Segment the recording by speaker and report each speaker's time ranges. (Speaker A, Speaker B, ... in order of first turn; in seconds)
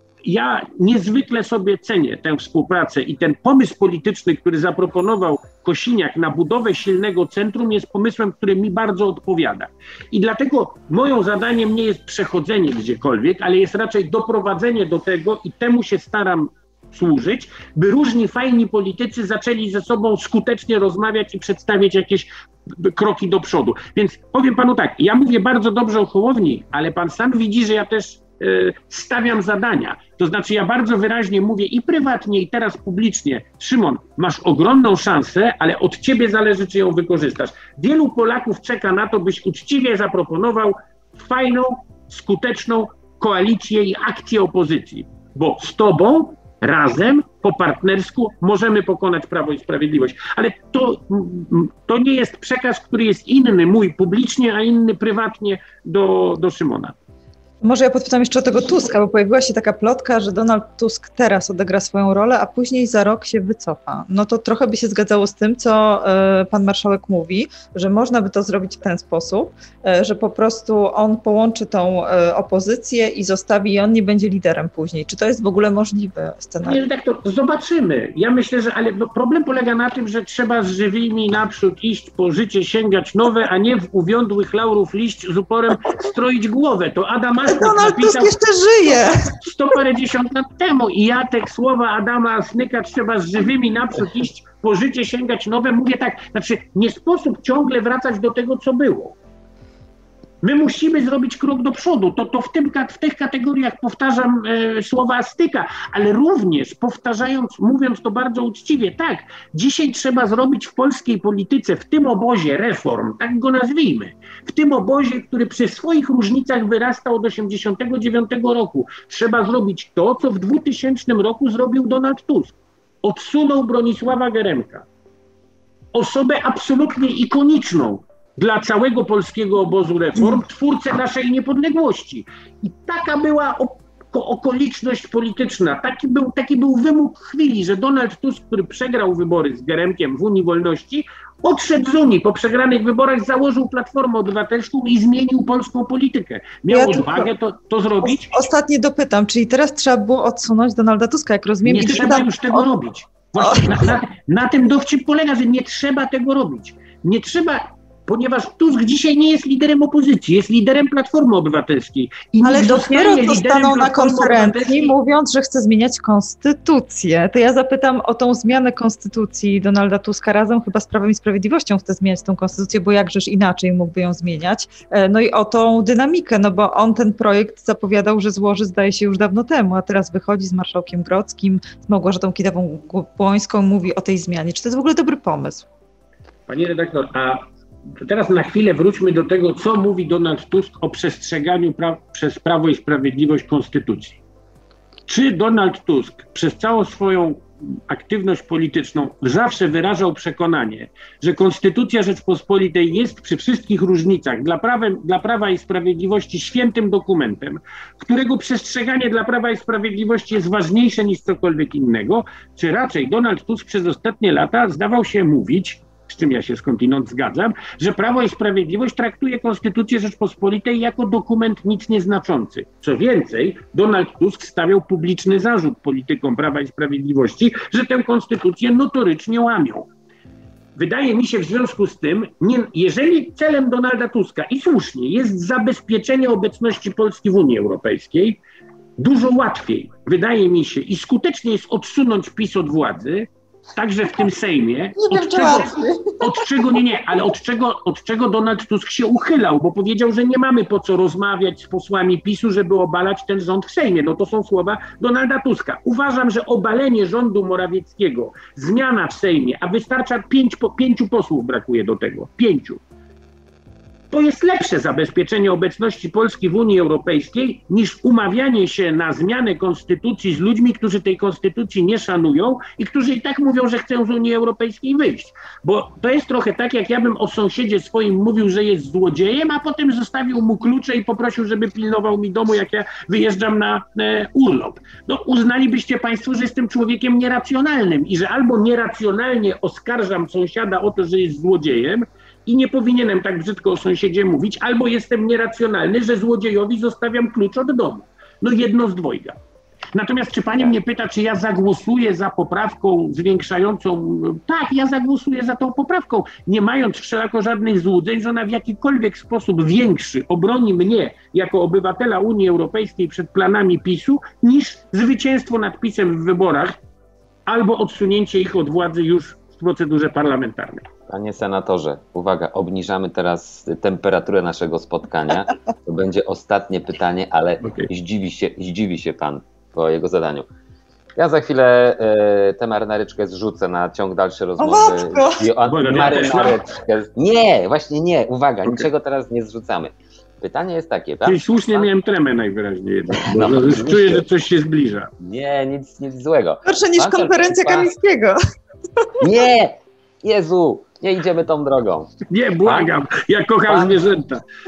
Speaker A: 0.2-57.0, 76.6-88.3, 88.9-99.2, 100.4-124.9, 125.9-148.3, 151.6-164.9, 186.5-187.4, 187.9-194.2, 195.1-229.9, 230.8-238.4, 239.0-262.8, 264.1-299.4, 299.9-316.8, 317.5-320.9, 327.6-327.9, 335.7-336.6, 341.2-345.1, 352.3-354.4
Speaker B: 57.6-76.8, 87.5-89.4, 146.7-147.3, 148.0-152.6, 153.4-153.9, 162.4-185.7, 245.0-246.5, 334.6-335.5, 346.6-348.4
Speaker C: 321.1-330.5, 331.2-341.9, 343.2-344.2, 345.2-347.9, 349.2-352.1, 352.6-352.9, 353.7-354.0